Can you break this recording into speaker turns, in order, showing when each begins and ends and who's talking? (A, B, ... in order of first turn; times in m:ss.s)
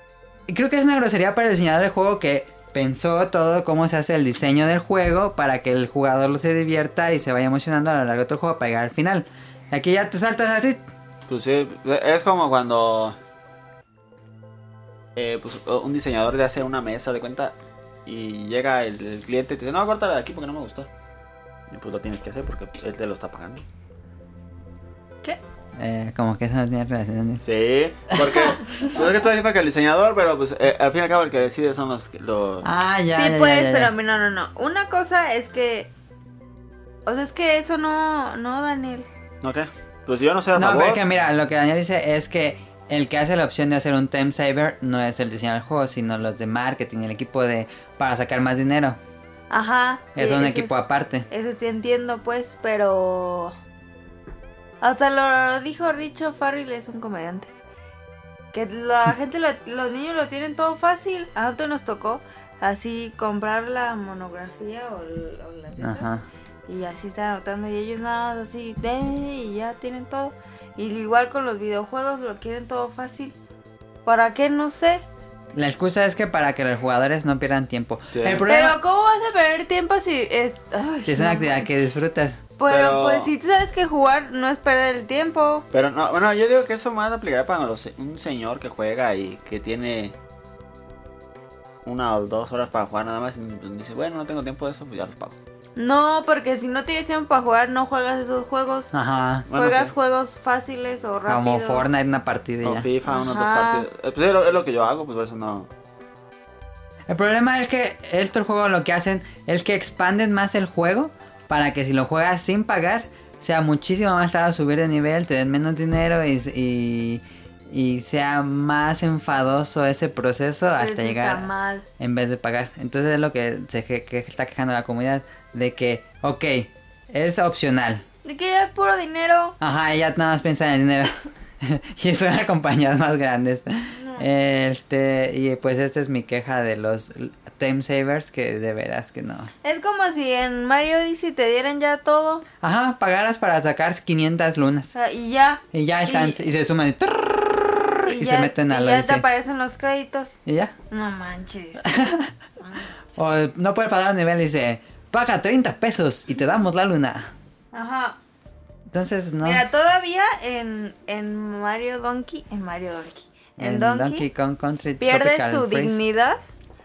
0:00.5-0:10.8 A
0:11.3-0:13.2 B
0:15.2-0:20.9 B
0:21.7-0:23.6 B
0:25.8-0:27.4 A
0:27.4-0:32.7 B
0:32.6-0:33.9 A
0:33.1-0:35.9 C
0:37.0-0:39.1 C
0:39.4-0:41.0 B
0:40.5-0:49.0 A
0:49.5-0:50.8 C
0:50.1-0:51.2 A
0:51.3-0:53.5 C
0:54.8-0:57.5 C
0:58.5-1:06.1 C
1:05.8-1:06.2 A
1:06.7-1:13.4 C
1:14.0-1:15.0 C
1:15.5-1:18.8 A
1:18.1-1:18.5 B
1:18.5-1:21.7 C
1:21.0-1:22.4 A
1:22.6-1:25.6 C
1:22.7-1:23.3 B
1:25.7-1:30.1 B
1:31.8-1:35.4 B
1:35.8-1:38.9 C
1:38.9-1:39.5 A
1:39.5-1:39.9 B
1:39.5-1:41.9 C
1:41.3-1:42.9 A
1:42.6-1:45.7 B
1:43.0-1:43.9 C
1:47.1-2:08.0 A
2:00.8-2:01.8 C
2:08.2-2:09.6 C
2:09.6-2:19.5 A
2:13.9-2:14.3 C
2:19.6-2:22.4 C
2:22.6-2:24.9 A
2:24.9-2:26.4 C
2:25.7-2:29.2 A
2:28.0-2:30.4 C
2:30.4-2:30.7 A
2:30.9-2:31.9 C
2:31.8-2:32.3 A
2:32.6-2:32.9 C
2:33.2-2:37.3 A
2:37.7-2:38.2 C
2:38.9-2:39.6 A
2:39.4-2:44.3 C
2:43.6-2:46.0 A
2:45.0-2:46.5 C